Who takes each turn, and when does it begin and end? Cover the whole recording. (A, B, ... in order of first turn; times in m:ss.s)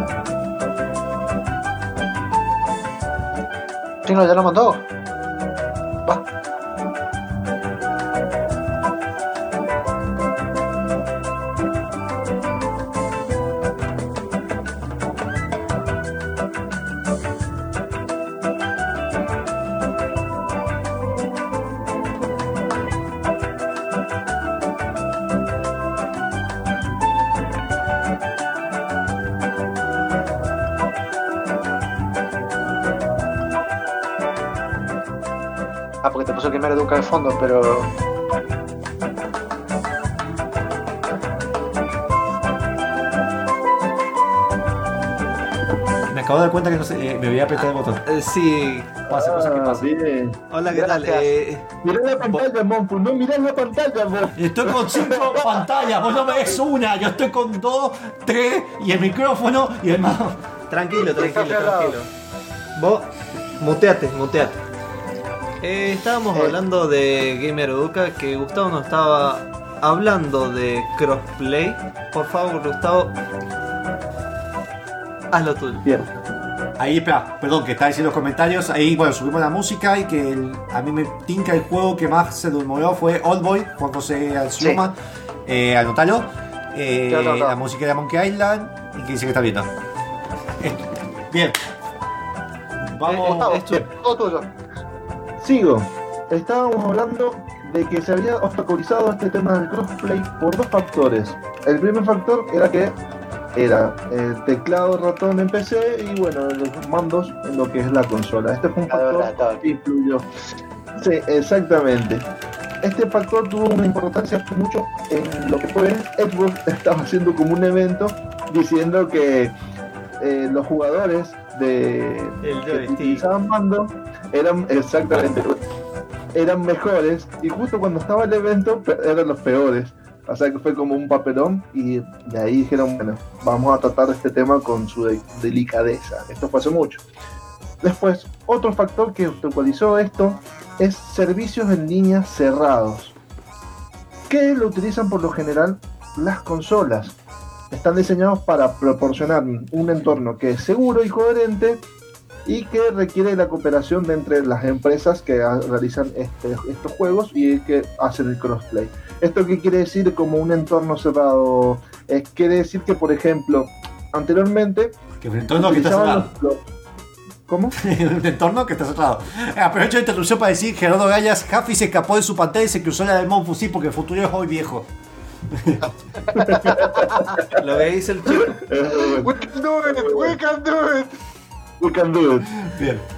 0:04.1-0:04.8 A
0:36.0-0:37.9 A
0:46.1-0:48.0 B
0:47.6-0:49.9 C
0:49.1-0:50.9 D
0:49.2-0:49.7 B
0:50.5-0:51.7 C
0:50.9-0:51.3 A
0:51.8-0:55.6 D
0:54.4-1:00.4 B
1:00.7-1:02.1 C
1:01.2-1:02.0 A
1:02.8-1:03.1 C
1:03.6-1:04.6 C
1:05.6-1:13.2 C
1:15.3-1:15.8 C
1:15.8-1:16.1 D
1:16.8-1:29.7 B
1:27.1-1:27.6 A
1:30.6-1:31.6 B
1:32.8-1:33.5 B
1:33.0-1:33.9 C
1:33.2-1:34.5 A
1:35.4-1:43.0 D
1:43.6-1:50.3 D
1:48.9-1:49.7 A
1:51.0-1:52.2 D
1:52.8-1:59.5 D
2:00.2-2:05.6 D
2:02.4-2:03.3 C
2:06.3-2:17.0 D
2:17.8-2:23.1 D
2:24.3-2:27.2 D
2:27.7-2:31.8 D
2:32.5-2:45.0 D
2:45.2-2:46.3 B
2:45.6-2:46.6 D
2:47.5-2:47.8 D
2:47.8-2:54.9 B
2:55.5-2:55.9 B
2:56.3-2:57.6 D
2:56.4-2:57.3 A
2:57.5-2:58.6 C
2:58.5-2:59.3 D
2:58.8-3:01.2 A
2:59.9-3:00.4 D
3:01.8-3:02.6 D
3:02.6-3:03.0 B